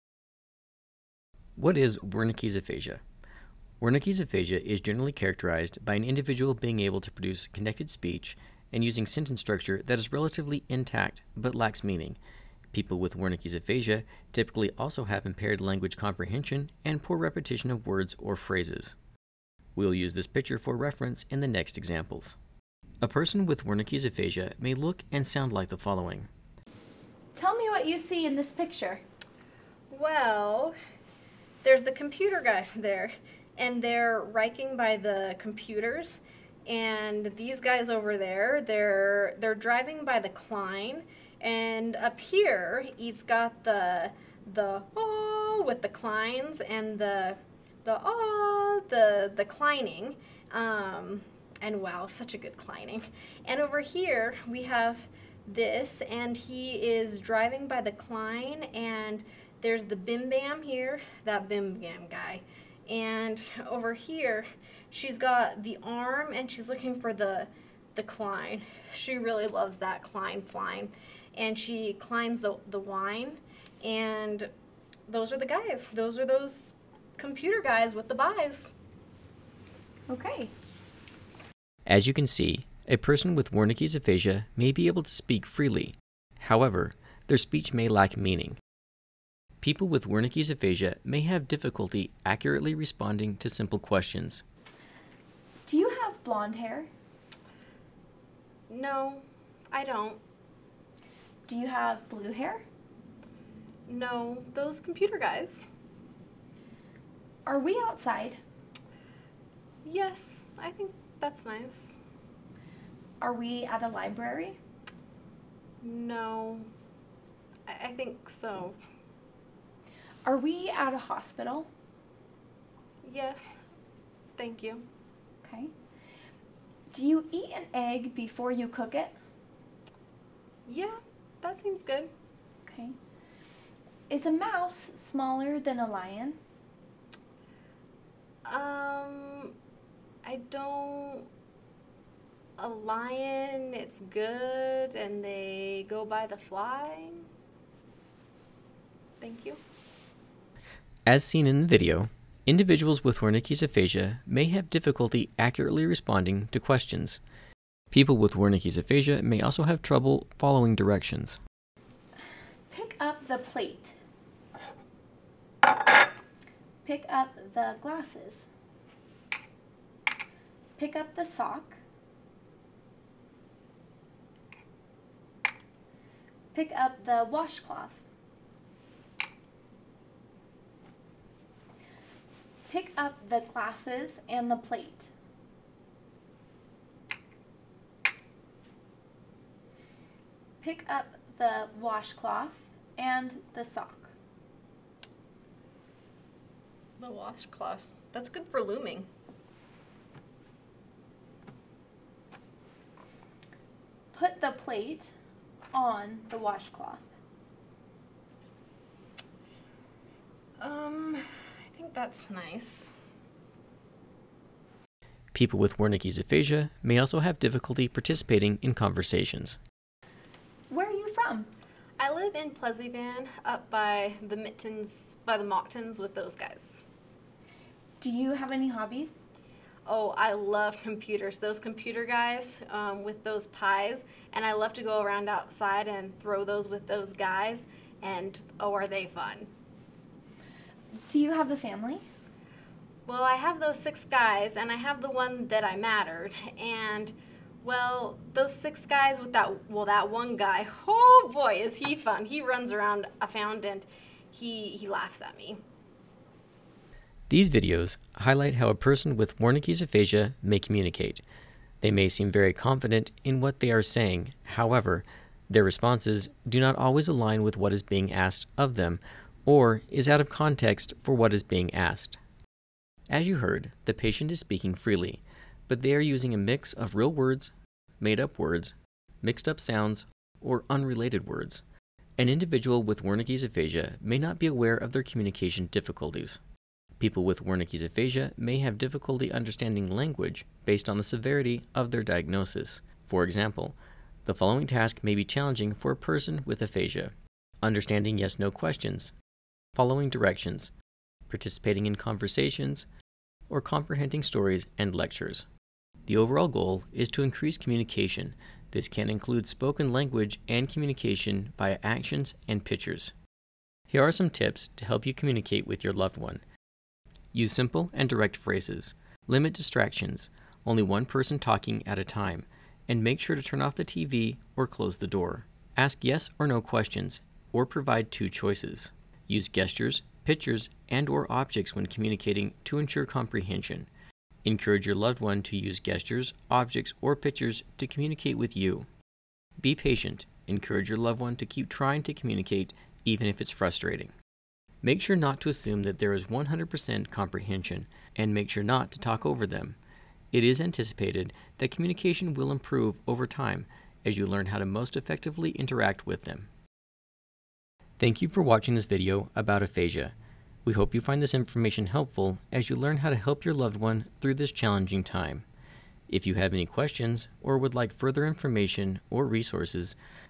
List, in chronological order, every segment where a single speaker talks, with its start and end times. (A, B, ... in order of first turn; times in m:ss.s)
0:01.6-0:03.0 A
0:03.8-0:12.2 A
0:12.7-0:19.0 A
0:19.7-0:22.4 A
0:23.0-0:26.3 A
0:27.4-0:29.0 B
0:29.9-0:30.7 C
0:31.6-1:14.5 C
1:15.1-1:18.8 C
1:20.1-1:20.5 B
1:21.8-1:28.6 A
1:29.6-1:34.4 A
1:35.7-1:36.9 B
1:38.7-1:40.2 C
1:41.4-1:42.6 B
1:43.9-1:45.7 C
1:47.4-1:48.4 B
1:49.8-1:52.0 C
1:53.2-1:54.6 B
1:55.8-1:56.7 C
1:57.7-1:58.8 C
2:00.2-2:01.7 B
2:03.0-2:03.6 C
2:04.4-2:04.8 C
2:05.4-2:05.7 B
2:06.9-2:09.2 B
2:10.7-2:12.1 C
2:12.6-2:13.0 B
2:14.1-2:16.4 B
2:18.4-2:19.5 C
2:20.2-2:21.3 C
2:22.6-2:27.3 C
2:29.2-2:29.6 C
2:31.0-2:37.2 A
2:37.9-2:41.4 A
2:42.7-2:44.0 B
2:46.8-2:48.5 B
2:50.8-2:51.8 B
2:56.5-2:58.0 B
3:02.7-3:05.1 B
3:10.6-3:14.1 B
3:17.0-3:19.1 C
3:24.1-3:25.1 B
3:25.7-3:27.0 B
3:30.6-3:32.9 C
3:35.3-3:39.6 A
3:40.7-3:41.5 B
3:42.0-3:46.8 C
3:48.0-3:49.2 B
3:49.8-3:59.5 C
4:01.1-4:02.0 B
4:03.0-4:15.6 C
4:17.3-4:21.2 A
4:21.8-4:32.2 A
4:33.1-4:41.6 A
4:42.2-4:46.4 A
4:47.0-4:59.1 A
4:59.8-5:00.7 A
5:01.3-5:02.9 A
5:03.5-5:05.5 A
5:06.0-5:13.1 A
5:13.9-5:16.4 A
5:17.3-5:33.9 A
5:34.4-5:38.9 A
5:39.6-5:44.1 A
5:44.8-5:49.8 A
5:50.3-5:56.5 A
5:58.0-6:05.5 A
6:06.1-6:10.0 A